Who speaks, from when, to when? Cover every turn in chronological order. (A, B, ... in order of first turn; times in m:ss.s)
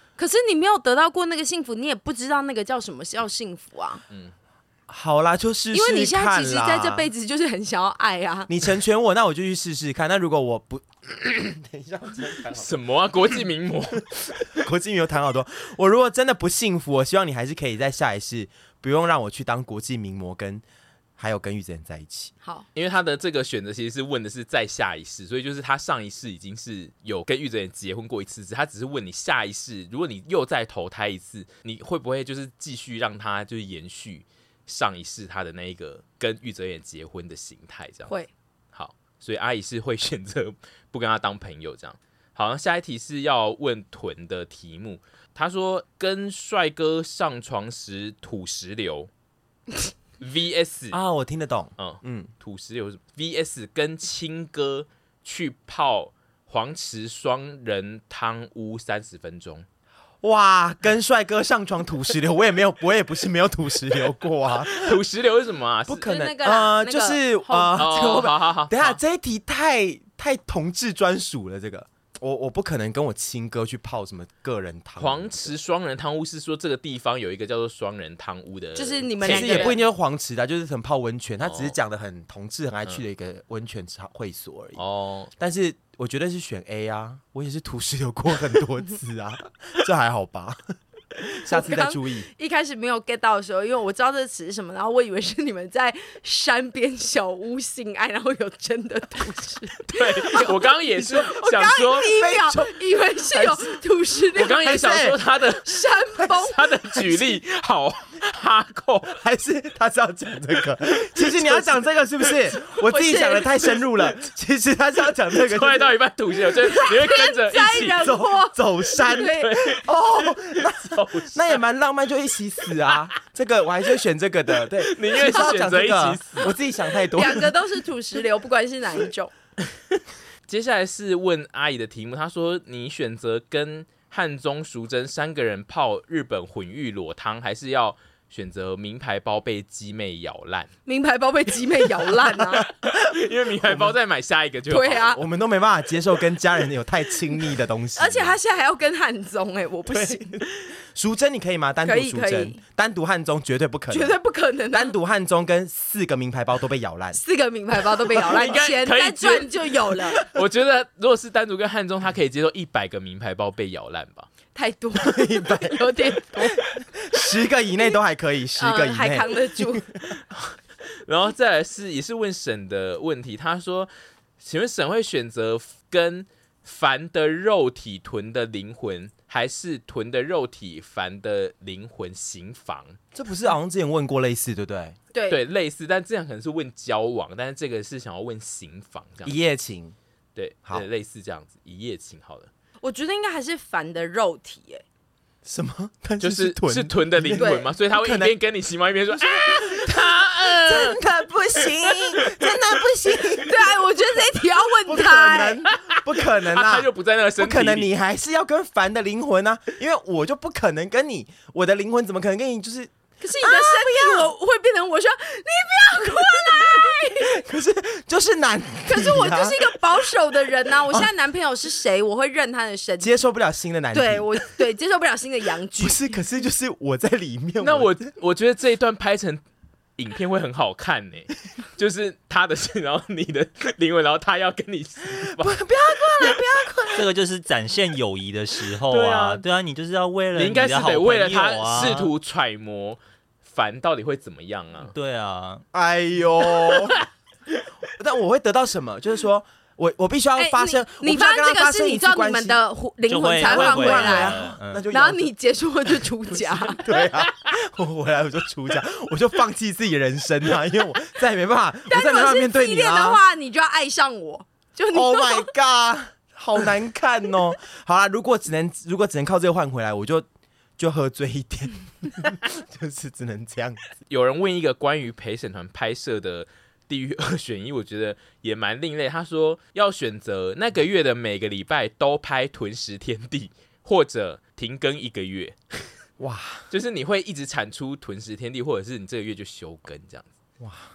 0:00.2-0:04.0 A
0:04.9-0:07.1 B
0:05.7-0:08.5 A
0:08.5-0:12.8 B
0:12.5-0:14.1 C
0:14.4-0:20.6 B
0:21.2-0:22.3 B
0:22.8-0:38.1 C
0:38.7-0:49.1 C
0:50.2-0:51.0 C
0:50.9-0:52.3 B
0:51.8-0:59.7 C
1:00.2-1:05.0 B
1:04.7-1:06.0 C
1:05.9-1:15.5 B
1:06.0-1:08.3 A
1:07.8-1:09.0 C
1:15.0-1:19.8 C
1:18.8-1:19.8 A
1:19.2-1:24.8 B
1:21.4-1:21.8 C
1:24.8-1:25.3 C
1:25.4-1:30.6 B
1:31.3-1:32.3 B
1:31.5-1:46.8 A
1:39.9-1:42.1 C
1:42.0-1:43.8 B
1:44.3-1:49.2 C
1:44.6-1:45.2 B
1:49.1-1:55.9 B
1:52.7-1:53.8 A
1:55.4-1:58.1 C
1:56.6-1:59.6 A
1:58.0-2:07.5 B
1:59.4-2:01.6 C
2:04.8-2:06.5 C
2:06.4-2:09.3 A
2:10.5-2:20.7 C
2:20.9-2:22.7 A
2:22.5-2:25.1 C
2:23.6-2:24.0 B
2:24.7-2:25.2 A
2:24.9-2:28.4 B
2:28.0-2:30.4 A
2:29.9-2:34.2 B
2:31.8-2:32.6 A
2:33.9-2:35.0 A
2:34.7-2:37.2 B
2:37.1-2:40.2 A
2:38.1-2:44.3 C
2:44.6-2:46.6 A
2:45.0-2:45.8 B
2:47.0-2:50.0 B
2:48.6-2:49.9 A
2:50.3-3:03.0 C
3:03.1-3:05.0 B
3:05.1-3:05.4 A
3:05.3-3:09.4 C
3:09.2-3:10.0 B
3:10.4-3:12.5 C
3:12.8-3:14.8 A
3:15.4-3:18.4 B
3:16.2-3:21.0 C
3:17.4-3:17.7 A
3:19.1-3:23.8 B
3:21.6-3:22.5 C
3:23.4-3:25.6 A
3:24.8-3:34.3 B
3:25.7-3:27.9 C
3:33.2-3:37.4 A
3:37.2-3:39.8 B
3:38.9-3:43.2 A
3:43.0-3:44.4 B
3:43.9-3:46.1 A
3:45.8-3:48.0 B
3:47.6-3:49.4 C
3:50.0-3:55.6 C
3:55.2-3:57.1 B
3:56.9-4:02.1 D
3:58.9-3:59.4 C
4:00.4-4:04.9 C
4:04.8-4:05.6 D
4:05.7-4:07.0 B
4:07.9-4:12.6 B
4:10.4-4:16.8 A
4:13.1-4:14.8 D
4:13.4-4:15.3 B
4:16.3-4:23.2 B
4:21.9-4:25.5 A
4:24.9-4:30.3 B
4:30.8-4:33.8 B
4:34.1-4:46.0 C
4:46.2-4:46.7 B
4:46.7-4:50.3 C